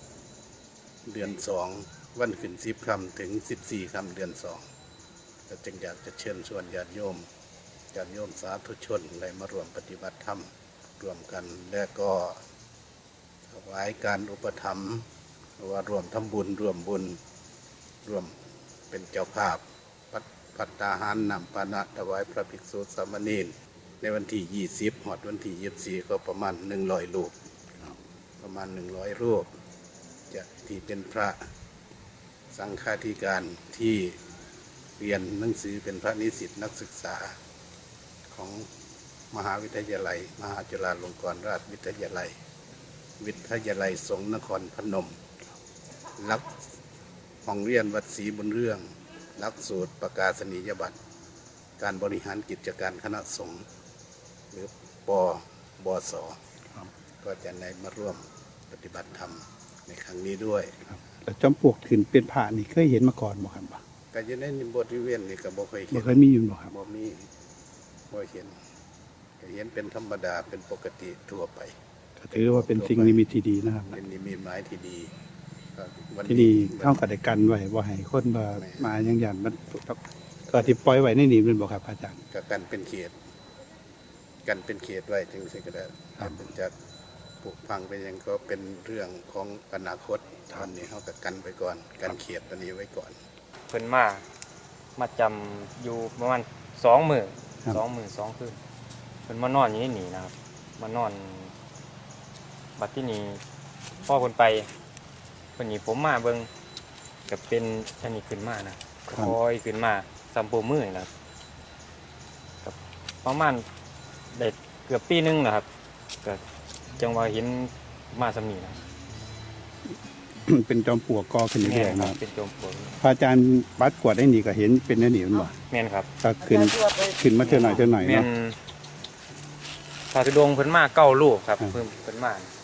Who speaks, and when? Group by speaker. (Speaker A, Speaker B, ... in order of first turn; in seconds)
Speaker A: 1.1-4.6, 5.5-7.3, 7.9-12.4, 13.5-15.1, 15.6-17.2, 18.0-18.4, 18.9-27.3, 28.4-29.5, 30.3-31.4, 32.5-34.2, 35.0-37.4, 38.3-38.7, 39.3-42.4, 43.2-45.2, 46.2-46.6, 47.5-51.0, 51.8-53.7, 54.5-56.4, 57.2-60.8, 64.1-67.3, 68.1-68.6, 69.4-71.8, 72.3-73.2, 73.9-75.1, 75.8-77.0, 78.5-78.9, 82.3-83.2, 84.5-86.7, 87.4-93.2
Speaker B: 60.9-63.8, 65.9-66.7, 72.2-74.0, 76.2-82.2, 120.5-122.2, 123.0-125.5, 126.2-128.3
Speaker C: 93.7-94.2, 95.0-98.6, 99.3-101.5, 102.8-103.4, 104.0-104.7, 105.6-106.5, 107.3-111.1, 112.6-113.7, 114.3-115.7, 117.0-118.8, 121.6-123.0, 125.7-126.1, 127.4-128.6, 130.1-132.5